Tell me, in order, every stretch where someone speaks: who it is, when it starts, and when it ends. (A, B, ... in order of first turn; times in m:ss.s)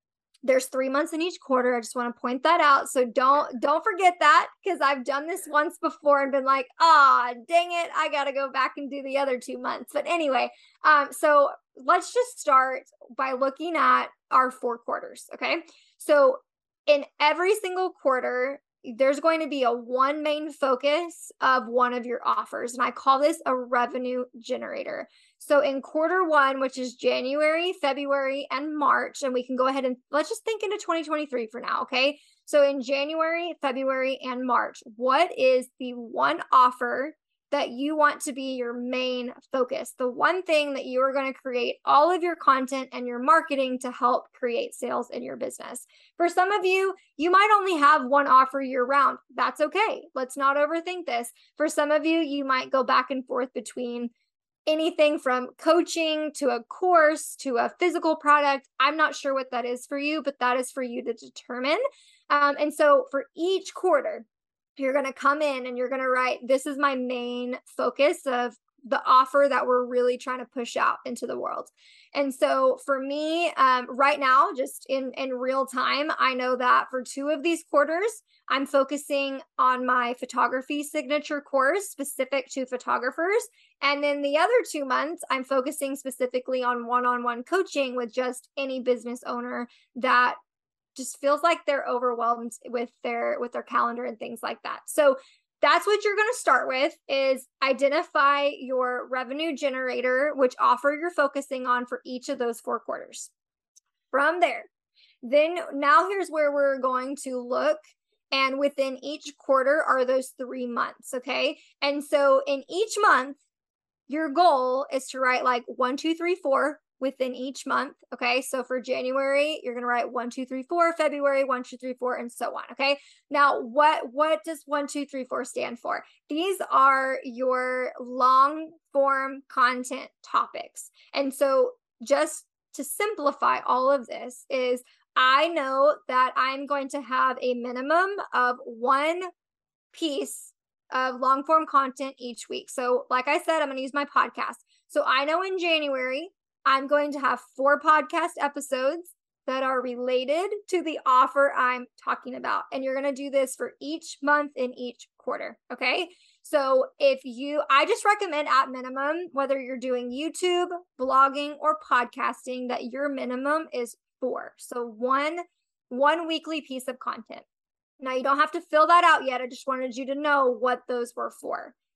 0:00.4-0:54.1 A
0:54.7-1:04.2 A
1:04.8-1:30.4 A
1:31.0-1:43.3 A
1:44.1-1:44.7 A
1:45.2-1:47.8 A
1:48.3-1:53.4 A
1:54.1-2:19.3 A
2:19.9-2:47.4 A
2:48.0-2:51.7 A